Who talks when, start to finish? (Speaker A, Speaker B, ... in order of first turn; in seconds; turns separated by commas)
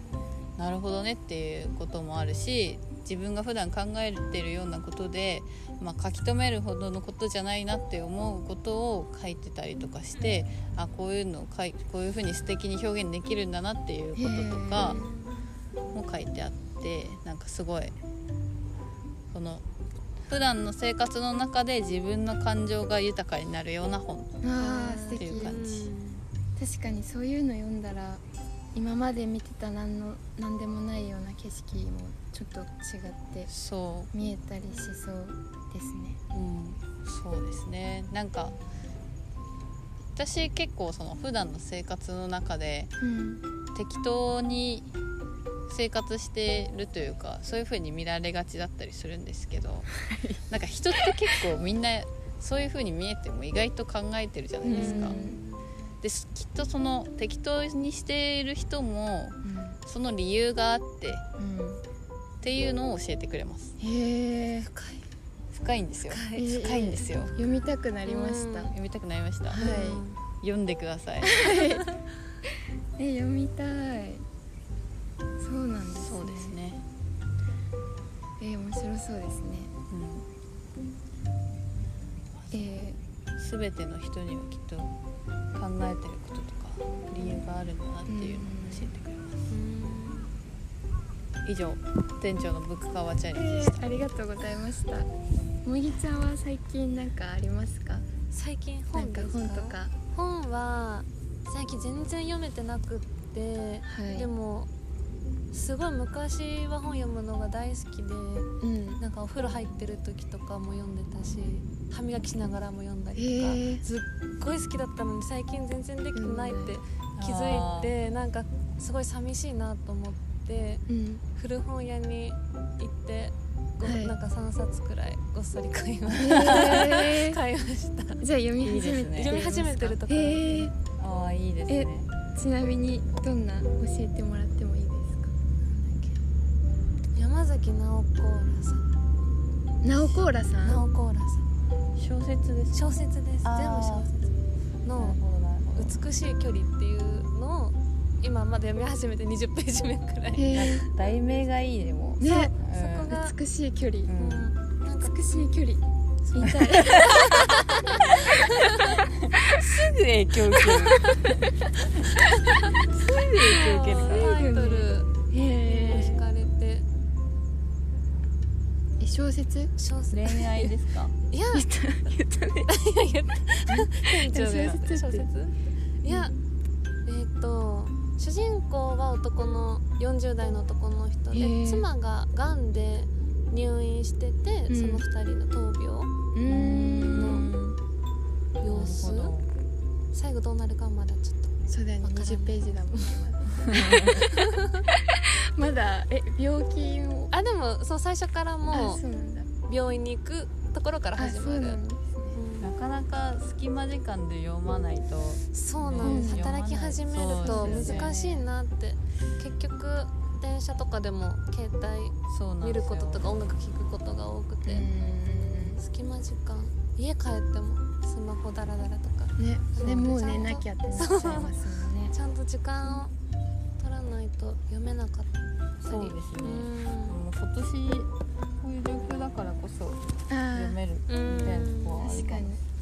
Speaker A: 0.6-15.1, Speaker B: 14.2-15.1, Speaker C: 14.8-15.2, Speaker A: 15.9-17.9, Speaker A: 19.3-19.6, Speaker A: 20.3-24.5, Speaker B: 24.4-25.6, Speaker C: 24.6-26.2, Speaker A: 25.1-25.9, Speaker B: 26.6-28.2, Speaker B: 28.7-33.5, Speaker A: 33.5-34.1, Speaker B: 34.1-36.2, Speaker A: 36.3-38.5, Speaker A: 40.1-42.9, Speaker B: 43.0-43.4, Speaker A: 43.7-44.9, Speaker A: 45.7-55.2, Speaker B: 50.0-50.4, Speaker B: 54.6-55.4, Speaker C: 54.7-55.6, Speaker A: 56.0-61.3, Speaker B: 59.4-59.8, Speaker B: 61.4-61.8, Speaker A: 62.4-63.8, Speaker B: 63.8-64.7, Speaker C: 64.6-65.0, Speaker A: 65.5-67.3, Speaker C: 66.1-66.6, Speaker B: 66.3-68.7, Speaker C: 68.0-68.7, Speaker A: 68.7-71.5, Speaker B: 69.5-70.0, Speaker C: 69.6-70.2, Speaker B: 71.2-71.9, Speaker B: 73.0-74.2, Speaker B: 75.4-76.5, Speaker A: 76.0-76.8, Speaker B: 78.4-79.7, Speaker A: 79.9-80.3, Speaker A: 82.4-82.7, Speaker B: 82.5-83.0, Speaker A: 83.4-84.9, Speaker A: 85.5-89.5, Speaker B: 88.1-88.9, Speaker C: 89.5-90.4, Speaker A: 91.4-94.0, Speaker B: 93.3-95.1, Speaker B: 95.6-98.0, Speaker C: 98.3-104.7, Speaker B: 98.9-99.9, Speaker B: 103.8-104.3, Speaker C: 105.5-128.2, Speaker B: 108.6-109.0, Speaker B: 113.2-113.8, Speaker B: 116.1-116.8, Speaker A: 117.2-117.9, Speaker B: 120.9-121.2, Speaker B: 123.8-124.2, Speaker B: 126.1-127.4, Speaker A: 126.3-126.8, Speaker B: 128.2-130.7, Speaker A: 128.6-130.0, Speaker C: 129.1-130.7, Speaker A: 131.0-132.1, Speaker B: 131.7-135.3, Speaker C: 135.7-136.1, Speaker C: 137.1-138.8, Speaker B: 139.8-140.8, Speaker C: 140.0-141.4, Speaker A: 141.9-144.1, Speaker C: 142.7-145.2, Speaker A: 144.9-146.0, Speaker C: 145.7-151.3, Speaker B: 150.3-150.8, Speaker A: 150.5-153.2, Speaker B: 152.2-152.5, Speaker C: 152.6-153.3, Speaker B: 153.1-154.1, Speaker A: 154.1-154.5, Speaker C: 154.2-155.1, Speaker B: 154.9-157.4, Speaker A: 156.4-161.7, Speaker C: 156.9-159.0, Speaker C: 160.7-161.3, Speaker C: 162.5-165.1, Speaker A: 162.9-164.3, Speaker B: 164.0-166.2, Speaker C: 165.6-166.8, Speaker B: 169.0-169.7, Speaker C: 169.8-170.7, Speaker A: 170.1-171.1, Speaker C: 171.3-171.7, Speaker B: 171.5-172.7, Speaker C: 172.6-176.3, Speaker B: 173.7-175.3, Speaker C: 177.1-186.1, Speaker B: 181.3-181.9, Speaker B: 184.7-185.0, Speaker B: 186.3-187.5, Speaker A: 186.5-187.8, Speaker C: 187.0-187.5, Speaker C: 188.6-189.3, Speaker A: 188.7-189.5, Speaker C: 190.1-193.2, Speaker B: 191.7-197.3, Speaker A: 193.7-194.2, Speaker C: 194.1-194.8, Speaker C: 197.3-199.0, Speaker B: 198.7-199.5, Speaker C: 199.6-201.8, Speaker B: 201.2-202.4, Speaker C: 202.3-202.7, Speaker A: 202.6-208.1, Speaker C: 205.5-214.9, Speaker B: 206.0-206.4, Speaker B: 207.4-208.4, Speaker A: 212.3-213.3, Speaker B: 214.6-215.8, Speaker C: 215.8-221.5, Speaker B: 219.4-222.1, Speaker A: 219.8-220.1, Speaker C: 222.1-223.1, Speaker C: 223.8-227.2, Speaker A: 225.8-228.1, Speaker A: 228.6-232.5, Speaker B: 230.3-231.5, Speaker C: 231.1-232.4, Speaker B: 232.0-232.6